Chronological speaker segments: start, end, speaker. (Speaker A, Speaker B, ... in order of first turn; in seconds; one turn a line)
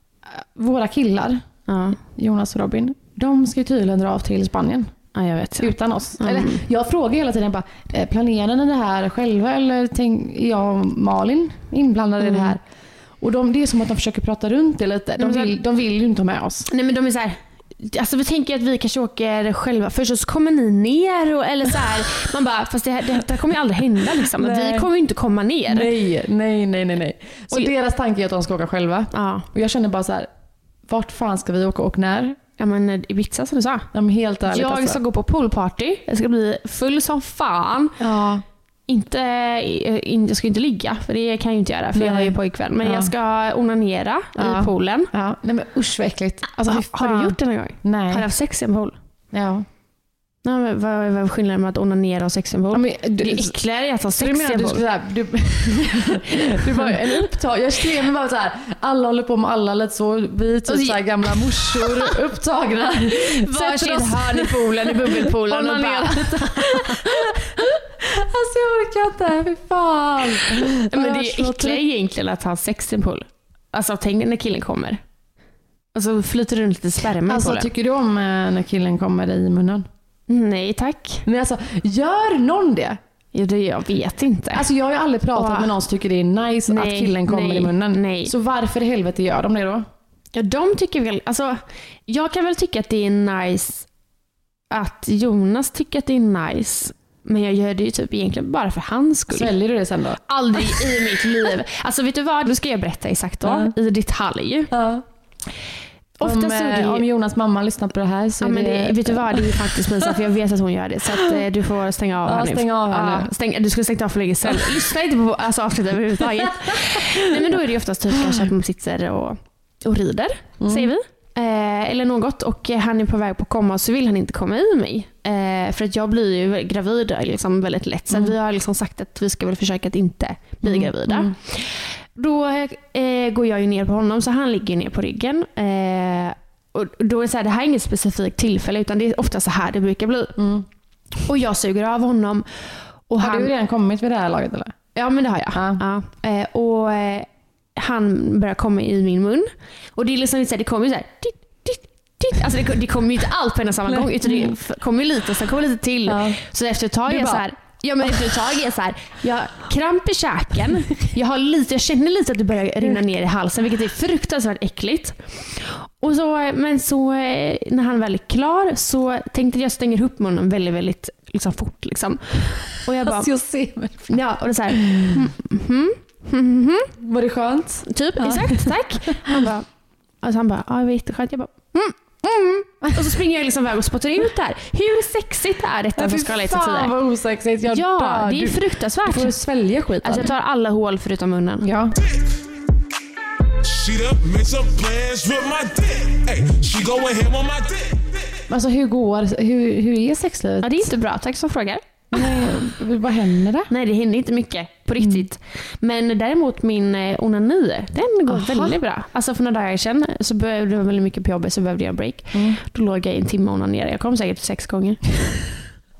Speaker A: 0.2-1.4
Speaker B: 1.7-2.0
Speaker A: 2.0-4.9
Speaker B: 5.2-6.6
Speaker A: 5.6-12.6
Speaker B: 12.2-12.6
Speaker A: 13.2-16.7
Speaker B: 15.2-15.6
Speaker B: 16.7-25.9
Speaker A: 24.4-24.9
Speaker A: 25.7-30.3
Speaker B: 29.1-29.5
Speaker A: 30.9-32.4
Speaker B: 32.6-33.9
Speaker A: 33.9-35.0
Speaker B: 34.5-38.0
Speaker A: 38.0-38.4
Speaker B: 38.9-45.1
Speaker A: 41.9-43.1
Speaker A: 44.4-48.3
Speaker B: 46.7-49.0
Speaker A: 49.3-49.7
Speaker B: 50.4-54.8
Speaker A: 52.7-53.6
Speaker A: 54.1-71.8
Speaker B: 56.4-57.3
Speaker B: 60.7-62.1
Speaker B: 63.1-67.4
Speaker B: 70.9-75.0
Speaker B: 76.0-77.7
Speaker A: 77.3-79.9
Speaker B: 80.3-81.2
Speaker A: 81.3-83.0
Speaker B: 83.3-84.7
Speaker A: 84.5-89.9
Speaker B: 85.3-85.8
Speaker B: 86.7-88.3
Speaker B: 90.3-93.9
Speaker B: 94.7-99.5
Speaker A: 99.3-101.3
Speaker B: 100.3-104.7
Speaker A: 103.4-103.7
Speaker A: 104.7-105.0
Speaker B: 106.2-107.1
Speaker A: 106.2-110.2
Speaker B: 108.4-140.4
Speaker A: 112.2-113.3
Speaker A: 114.5-114.8
Speaker A: 116.4-117.5
Speaker A: 118.1-118.4
Speaker A: 120.6-120.9
Speaker A: 128.1-128.3
Speaker A: 130.6-131.3
Speaker A: 140.4-140.7
Speaker B: 141.2-143.5
Speaker A: 143.2-144.8
Speaker B: 144.9-173.3
Speaker A: 145.5-145.8
Speaker A: 153.9-154.6
Speaker A: 156.1-156.4
Speaker A: 157.1-157.4
Speaker A: 173.0-174.2
Speaker B: 174.1-176.9
Speaker A: 174.7-175.3
Speaker A: 177.0-179.5
Speaker B: 177.9-179.7
Speaker B: 180.2-186.9
Speaker A: 186.0-190.3
Speaker B: 187.7-189.4
Speaker B: 190.0-191.7
Speaker A: 191.6-192.0
Speaker C: 193.6-198.2
Speaker A: 198.5-200.9
Speaker B: 200.6-202.3
Speaker A: 202.1-203.7
Speaker B: 203.7-215.4
Speaker A: 205.0-205.3
Speaker A: 208.3-208.8
Speaker A: 212.3-212.6